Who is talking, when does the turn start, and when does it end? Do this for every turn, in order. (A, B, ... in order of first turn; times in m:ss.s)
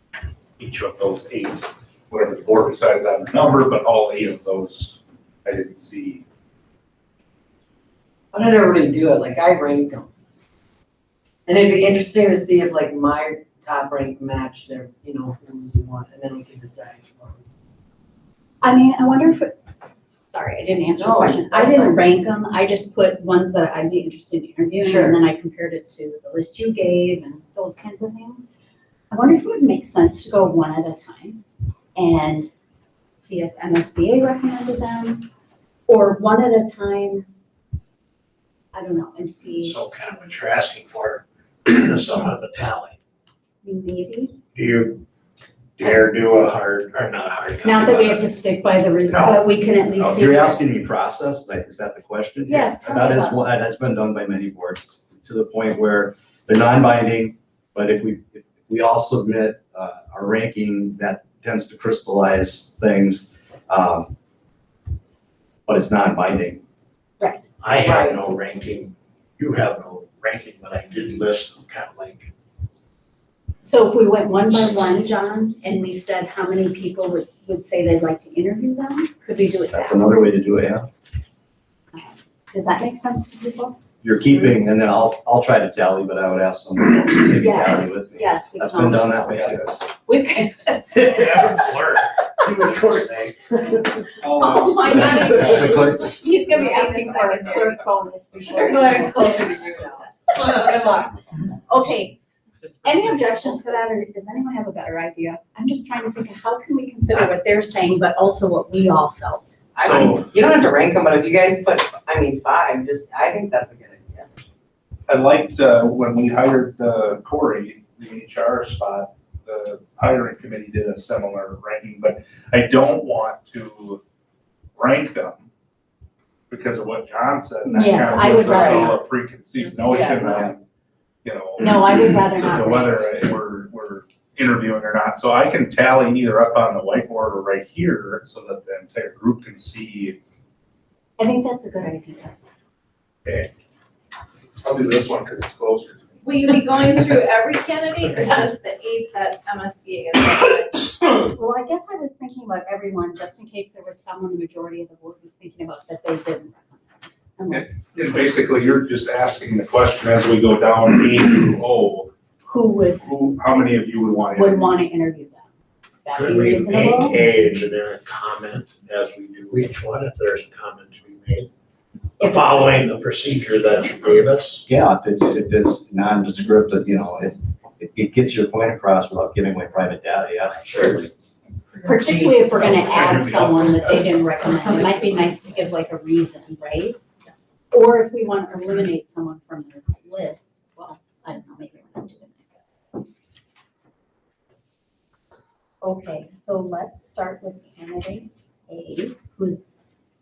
0:00.6-0:06.2 A
0:08.3-0:10.1 B
0:11.5-0:17.4 B
0:18.6-0:19.6 C
0:20.3-0:28.5 C
0:21.0-0:22.0 B
0:24.8-0:25.2 B
0:29.1-0:31.4 C
0:32.0-0:32.5 C
0:33.2-0:35.3 C
0:35.9-0:37.3 C
0:38.7-0:39.8 C
0:39.6-0:43.0 D
0:43.6-0:44.4 C
0:44.5-0:45.0 D
0:45.8-0:48.3 D
0:47.6-0:50.6 C
0:49.0-0:49.4 D
0:49.9-1:04.1 E
0:52.4-0:53.4 C
1:05.6-1:06.6 E
1:07.2-1:07.5 C
1:07.6-1:12.3 D
1:07.7-1:08.2 B
1:13.6-1:20.1 C
1:19.7-1:20.9 E
1:21.9-1:23.8 C
1:24.0-1:29.8 E
1:27.3-1:31.1 C
1:30.9-1:33.8 D
1:34.2-1:35.2 A
1:34.2-1:39.3 C
1:34.8-1:36.2 E
1:36.5-1:37.8 F
1:38.4-1:41.7 B
1:41.7-1:42.2 C
1:42.8-1:49.6 C
1:49.7-1:54.3 B
1:49.8-1:50.3 A
1:55.1-2:04.0 A
2:04.8-2:05.4 A
2:06.5-2:10.6 A
2:07.6-2:09.0 C
2:08.5-2:08.8 B
2:09.8-2:10.5 C
2:11.2-2:20.2 A
2:11.6-2:13.3 C
2:21.2-2:22.4 C
2:23.2-2:23.5 A
2:24.6-2:26.3 A
2:26.2-2:30.9 F
2:31.0-2:38.2 C
2:37.5-2:42.1 A
2:42.4-2:43.2 C
2:43.0-2:44.8 A
2:44.3-2:45.5 C
2:46.0-2:47.2 C
2:46.1-2:51.5 D
2:52.2-2:52.5 C
2:52.2-2:54.6 D
2:54.7-3:01.1 E
3:01.8-3:07.0 C
3:01.9-3:02.4 F
3:03.0-3:03.7 A
3:07.7-3:12.6 C
3:15.8-3:19.8 C